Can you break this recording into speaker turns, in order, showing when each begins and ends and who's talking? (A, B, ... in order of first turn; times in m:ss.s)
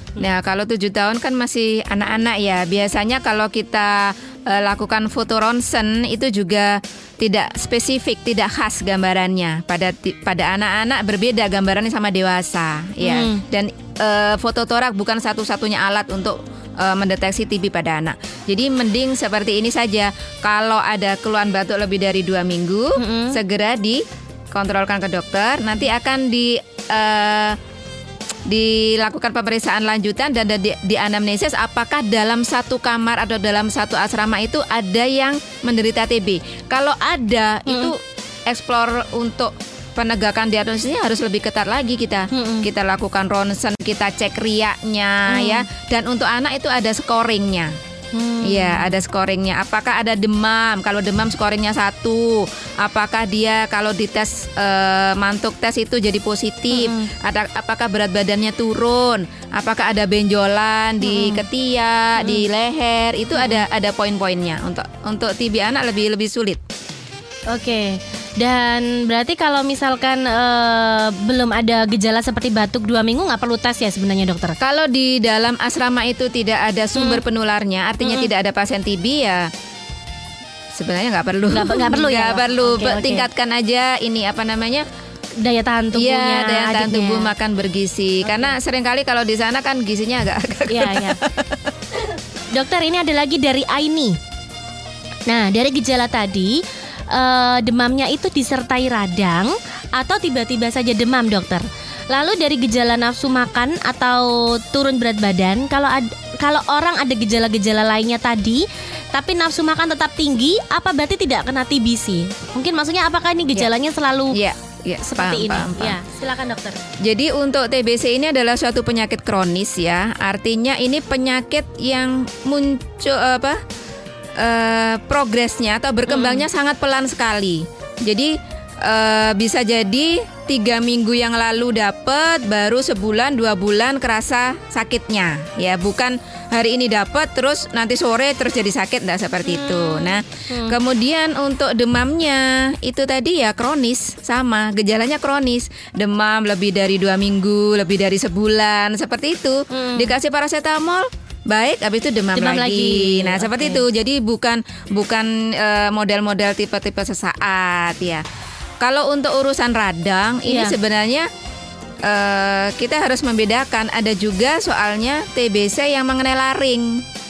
0:00.2-0:27.6 A
0:13.0-0:13.4 B
0:23.0-0:23.4 B
0:28.5-0:47.7 A
0:37.7-0:37.9 B
0:42.3-0:42.7 B
0:45.3-0:45.7 B
0:48.1-0:48.9 B
0:48.4-1:06.6 A
0:56.7-0:57.1 B
1:01.0-1:01.4 B
1:02.2-1:02.5 B
1:07.5-1:14.6 B
1:14.6-1:19.5 A
1:17.0-1:17.2 B
1:18.0-1:18.3 B
1:20.7-1:24.9 A
1:21.5-1:23.3 B
1:25.4-1:27.3 B
1:25.9-1:31.7 A
1:28.2-1:28.5 B
1:30.7-1:31.2 B
1:32.5-1:34.2 B
1:35.3-1:36.6 B
1:37.1-1:54.4 B
1:54.3-1:56.0 A
1:55.0-1:56.8 B
1:57.0-2:03.6 A
2:04.4-2:38.2 A
2:06.1-2:06.4 B
2:19.5-2:20.8 B
2:29.7-2:30.1 B
2:32.4-2:33.8 B
2:38.8-2:41.3 A
2:40.5-2:40.8 B
2:42.0-2:47.0 A